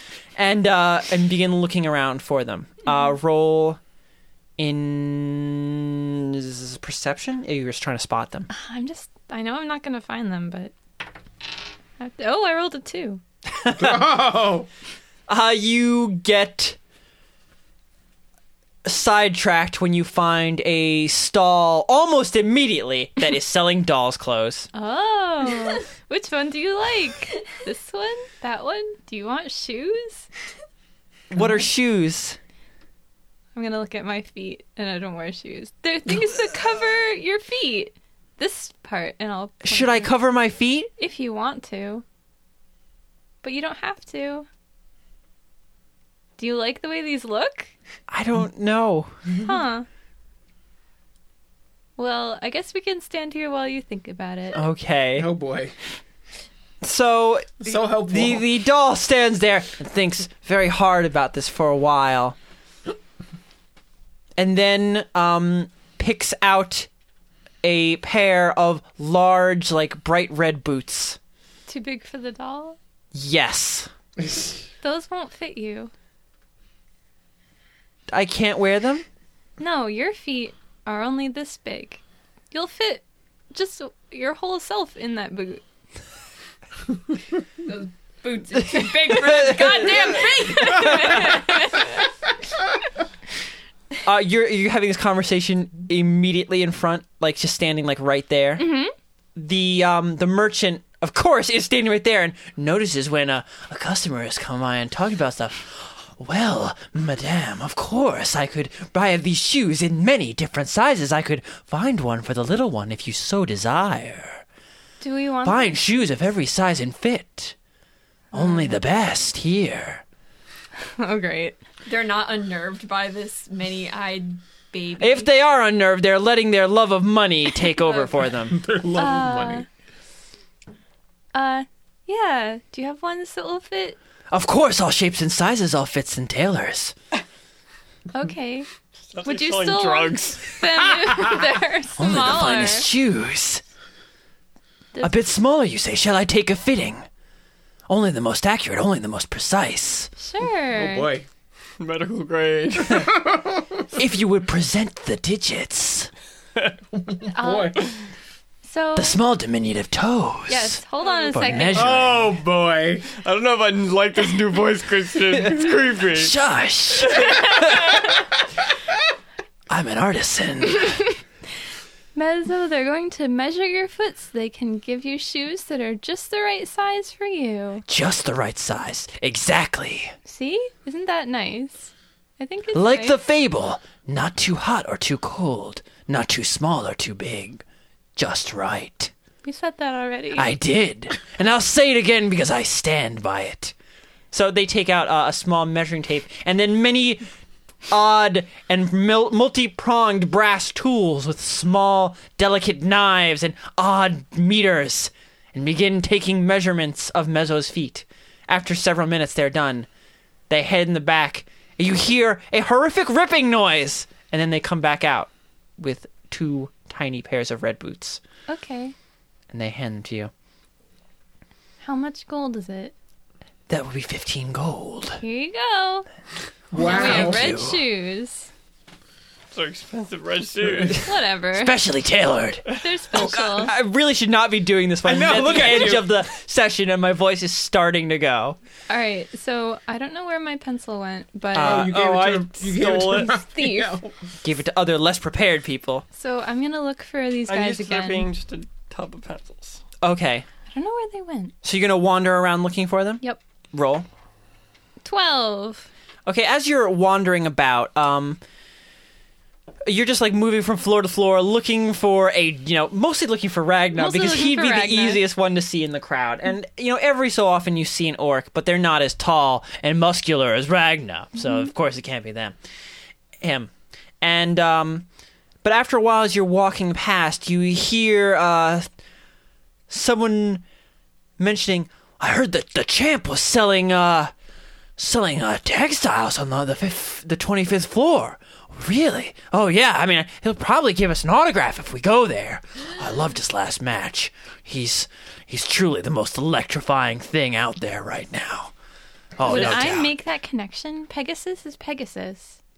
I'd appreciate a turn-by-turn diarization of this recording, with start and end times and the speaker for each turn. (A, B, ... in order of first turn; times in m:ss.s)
0:00.4-0:03.8 A
0:02.8-0:03.1 B
0:04.6-0:08.5 A
0:08.5-0:10.7 B
0:12.0-0:13.2 B
0:13.5-0:14.1 A
0:13.7-0:14.7 C
0:15.3-0:16.8 A
0:18.8-0:24.7 A
0:24.7-0:30.3 B
0:31.3-0:32.4 A
0:33.5-0:40.1 B
0:39.6-0:40.9 A
0:41.0-0:42.0 B
0:43.4-0:44.5 B
0:46.4-0:47.7 B
0:48.1-0:49.1 A
0:49.3-0:49.8 B
0:52.0-0:54.6 B
0:54.5-0:55.3 A
0:55.2-0:55.7 C
0:56.8-1:02.4 A
0:57.6-0:58.4 C
1:04.4-1:06.9 A
1:07.6-1:11.2 A
1:11.7-1:12.8 B
1:13.1-1:13.9 A
1:14.2-1:14.5 C
1:14.8-1:15.9 B
1:18.1-1:19.0 A
1:19.6-1:25.6 B
1:27.6-1:31.5 D
1:28.5-1:30.1 A
1:28.9-1:32.0 B
1:30.7-1:31.3 A
1:34.0-1:38.8 A
1:38.6-1:38.9 B
1:39.3-1:54.4 A
1:55.0-1:55.8 B
1:55.4-1:57.6 A
1:58.3-1:58.8 B
1:58.3-2:00.0 A
2:01.0-2:01.6 B
2:01.8-2:05.3 D
2:05.0-2:08.6 A
2:08.5-2:09.6 C
2:08.9-2:09.6 B
2:11.3-2:14.0 B
2:14.3-2:16.9 A
2:18.1-2:18.7 B
2:19.1-2:20.6 E
2:19.2-2:22.9 B
2:22.0-2:23.6 A
2:25.0-2:27.0 A
2:27.9-2:30.1 A
2:30.2-2:31.1 B
2:30.4-2:31.2 C
2:31.8-2:33.2 E
2:32.9-2:33.9 C
2:33.9-2:36.1 A
2:36.9-2:37.8 C
2:37.3-2:37.9 B
2:38.6-2:39.1 B
2:39.0-2:42.3 A
2:40.5-2:42.1 B
2:41.7-2:43.1 C
2:43.1-2:46.3 E
2:45.6-2:48.1 A
2:49.7-2:51.0 A
2:50.8-2:51.2 B
2:52.1-2:57.8 B
2:57.9-3:00.1 A
3:00.2-3:03.2 B
3:02.7-3:07.6 A
3:08.2-3:09.1 A
3:09.4-3:10.5 B
3:10.3-3:13.7 A
3:14.3-3:17.2 A
3:17.9-3:29.9 A
3:30.5-3:38.2 A
3:38.5-3:38.9 B
3:39.5-3:40.3 A
3:41.8-3:42.9 B
3:43.7-3:45.2 A
3:45.2-3:46.1 B
3:46.7-3:47.6 C
3:46.7-3:48.5 B
3:46.7-3:47.8 A
3:49.5-3:51.0 E
3:50.9-3:51.8 B
3:51.5-3:58.6 A
3:52.7-3:53.7 B
3:55.0-3:56.2 C
3:58.9-4:01.9 B
4:01.5-4:02.1 A
4:01.5-4:04.1 C
4:01.6-4:03.4 E
4:03.2-4:04.0 B
4:04.4-4:06.0 A
4:06.1-4:08.3 B
4:07.5-4:09.8 E
4:10.0-4:10.5 A
4:10.7-4:11.5 B
4:11.6-4:14.1 A
4:15.0-4:15.9 B
4:16.2-4:18.4 A
4:19.8-4:32.6 A
4:24.0-4:25.2 B
4:33.4-4:35.0 A
4:35.6-4:38.9 A
4:39.9-4:40.6 A
4:41.4-4:44.3 A
4:45.0-4:58.7 A
4:59.4-4:59.7 C
4:59.4-5:00.1 A
4:59.4-5:02.6 B